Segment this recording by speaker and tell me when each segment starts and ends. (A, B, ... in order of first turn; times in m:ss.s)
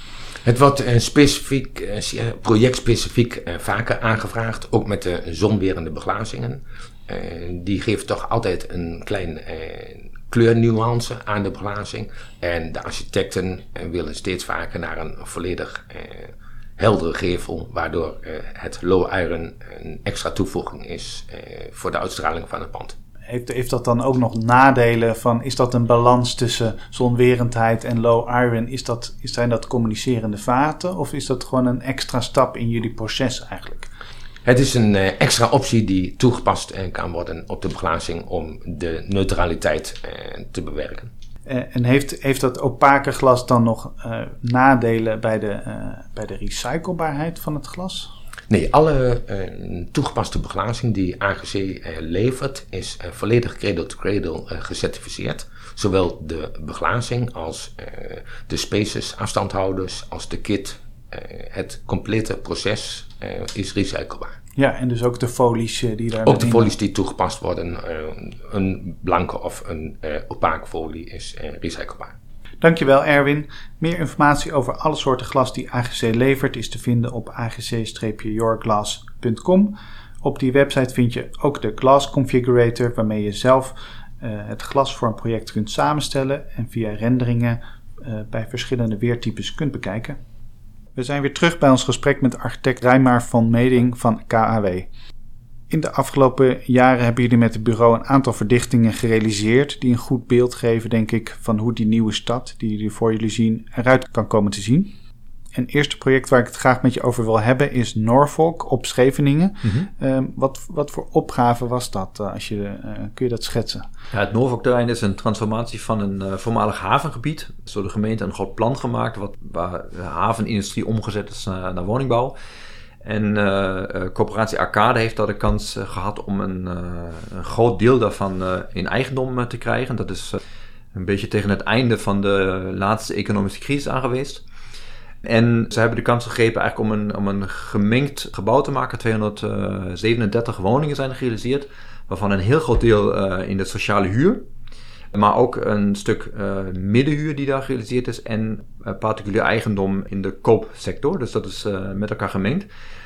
0:00.4-0:23.0 A
0:23.3-0:33.9 B
0:34.4-0:41.1 A
0:41.5-0:48.1 B
0:48.5-1:04.4 A
1:04.6-1:06.7 B
1:06.2-1:12.1 A
1:12.6-1:30.2 B
1:31.0-1:34.9 B
1:35.7-1:44.9 B
1:45.6-1:53.9 B
1:54.1-2:02.4 C
2:03.0-2:10.4 C
2:10.9-2:14.4 C
2:15.2-2:24.5 C
2:25.1-2:32.7 C